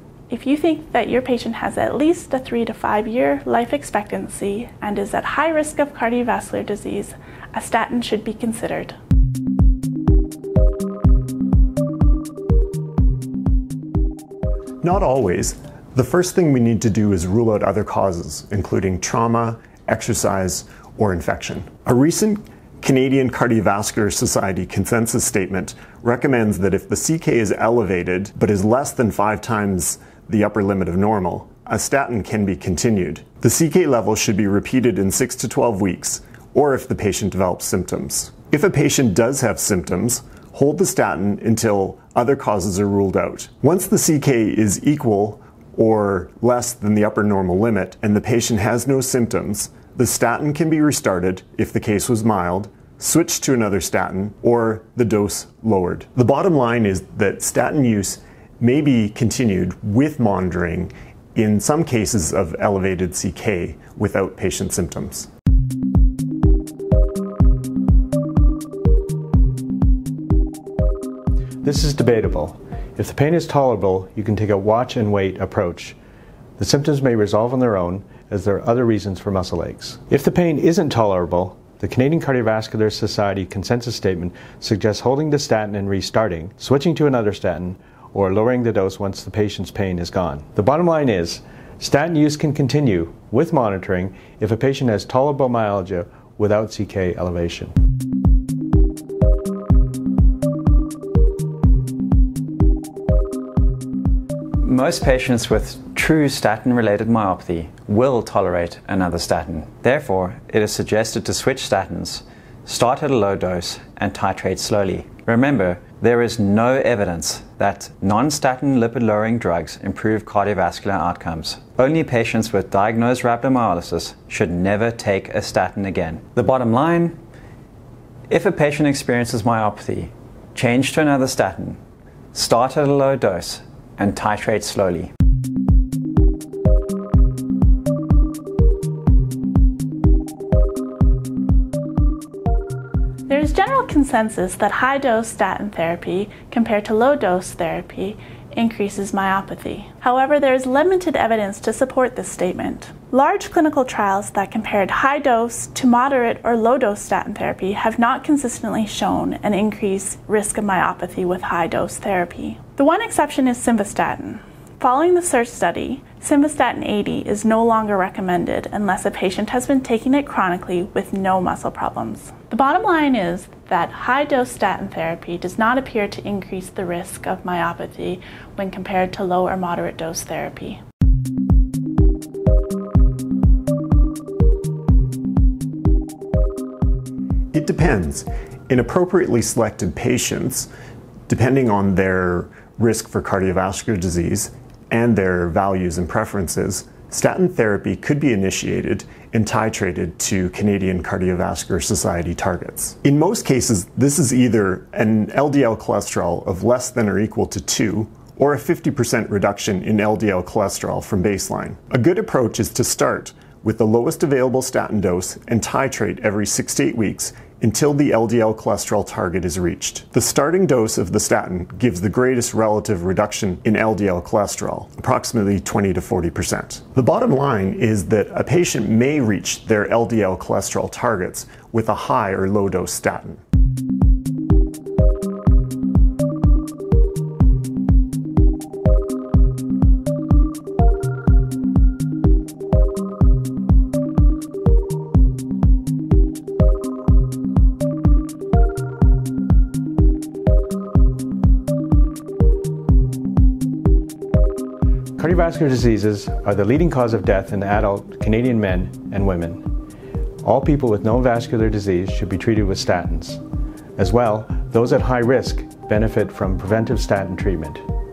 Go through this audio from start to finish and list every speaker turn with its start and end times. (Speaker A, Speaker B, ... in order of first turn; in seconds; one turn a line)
Speaker A: 0.3-9.0
Speaker B: 14.8-65.3
Speaker C: 71.6-76.0
Speaker C: 76.6-97.7
Speaker A: 104.6-105.1
Speaker D: 104.7-112.1
Speaker A: 105.7-106.0
Speaker A: 106.6-127.2
Speaker D: 112.7-127.1
Speaker A: 128.3-131.8
Speaker D: 128.3-130.0
Speaker D: 130.6-131.7
Speaker A: 132.3-133.6
Speaker D: 132.4-135.1
Speaker A: 143.3-180.8
Speaker B: 187.5-190.7
Speaker B: 191.3-233.4
Speaker C: 255.2-259.6
Speaker C: 260.4-263.4
Speaker C: 264.0-267.8